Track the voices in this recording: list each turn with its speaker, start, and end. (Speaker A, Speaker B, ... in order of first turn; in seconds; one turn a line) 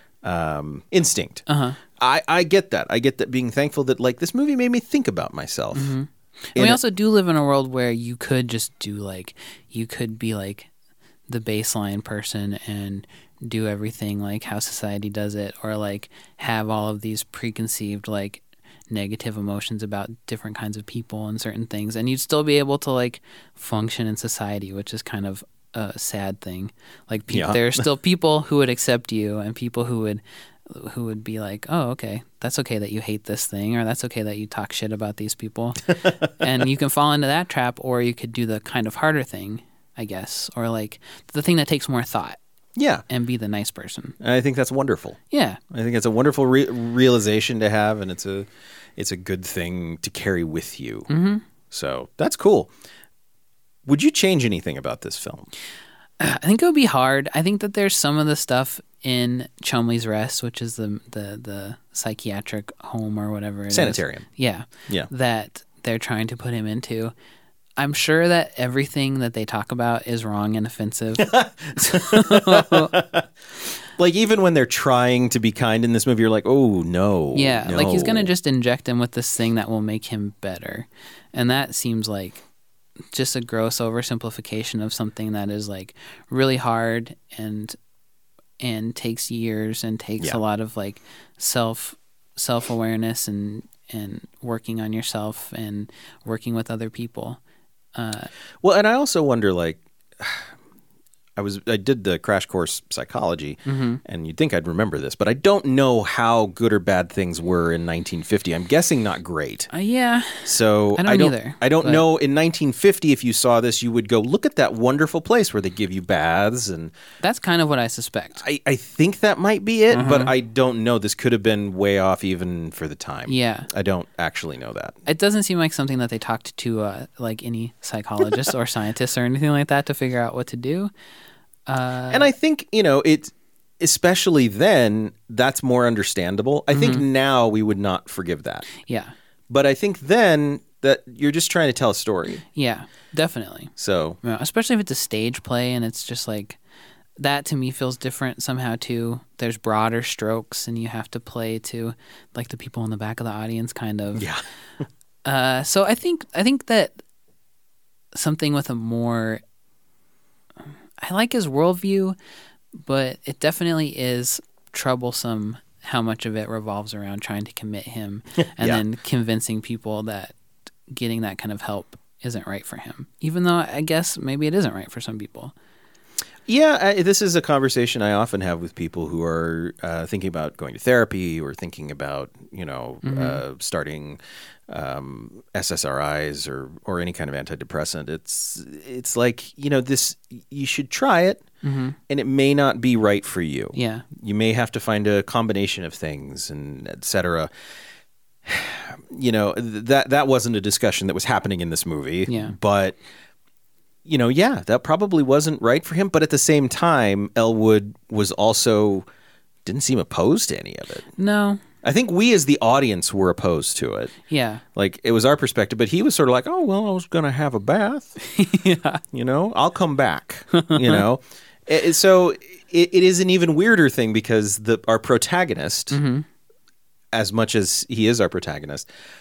Speaker A: 0.2-1.4
Speaker B: 1.5-1.8
Speaker A: 2.0-5.9
Speaker B: 5.7-10.7
Speaker A: 6.5-6.8
Speaker B: 11.3-42.4
Speaker A: 27.3-27.9
Speaker A: 36.0-36.3
Speaker A: 42.8-43.0
Speaker B: 43.1-44.2
Speaker A: 44.2-45.2
Speaker B: 45.3-45.6
Speaker A: 45.7-51.1
Speaker B: 51.1-51.4
Speaker A: 51.7-52.7
Speaker A: 53.9-55.5
Speaker B: 56.2-67.1
Speaker A: 63.7-64.2
Speaker B: 67.8-72.9
Speaker A: 71.2-73.3
Speaker A: 73.9-78.3
Speaker B: 77.3-82.4
Speaker B: 83.1-87.8
Speaker B: 88.6-97.4
Speaker B: 97.9-98.3
Speaker A: 98.6-100.5
Speaker A: 101.4-109.7
Speaker B: 103.6-104.0
Speaker B: 109.7-112.0
Speaker A: 110.4-116.9
Speaker B: 117.2-118.4
Speaker A: 118.4-125.0
Speaker B: 119.9-120.3
Speaker B: 123.3-123.7
Speaker B: 125.0-130.9
Speaker B: 131.7-132.3
Speaker A: 132.1-138.7
Speaker B: 136.7-137.0
Speaker B: 138.8-139.1
Speaker A: 139.5-142.4
Speaker B: 142.5-146.6
Speaker A: 143.8-144.2
Speaker B: 147.2-154.3
Speaker A: 154.1-154.4
Speaker B: 155.2-156.9
Speaker B: 158.1-159.4
Speaker B: 161.0-162.2
Speaker B: 162.7-170.3
Speaker A: 168.4-168.8
Speaker B: 170.9-175.5
Speaker A: 176.5-191.4
Speaker B: 183.0-183.4
Speaker B: 191.6-192.0
Speaker A: 192.1-197.5
Speaker B: 193.7-194.1
Speaker A: 198.4-203.0
Speaker B: 202.3-202.5
Speaker A: 204.0-209.1
Speaker A: 209.7-211.1
Speaker B: 211.2-211.6
Speaker A: 211.8-214.1
Speaker B: 214.3-214.6
Speaker A: 214.7-218.2
Speaker B: 218.2-219.0
Speaker A: 219.1-226.0
Speaker B: 220.5-221.0
Speaker B: 225.9-226.2
Speaker A: 227.1-228.8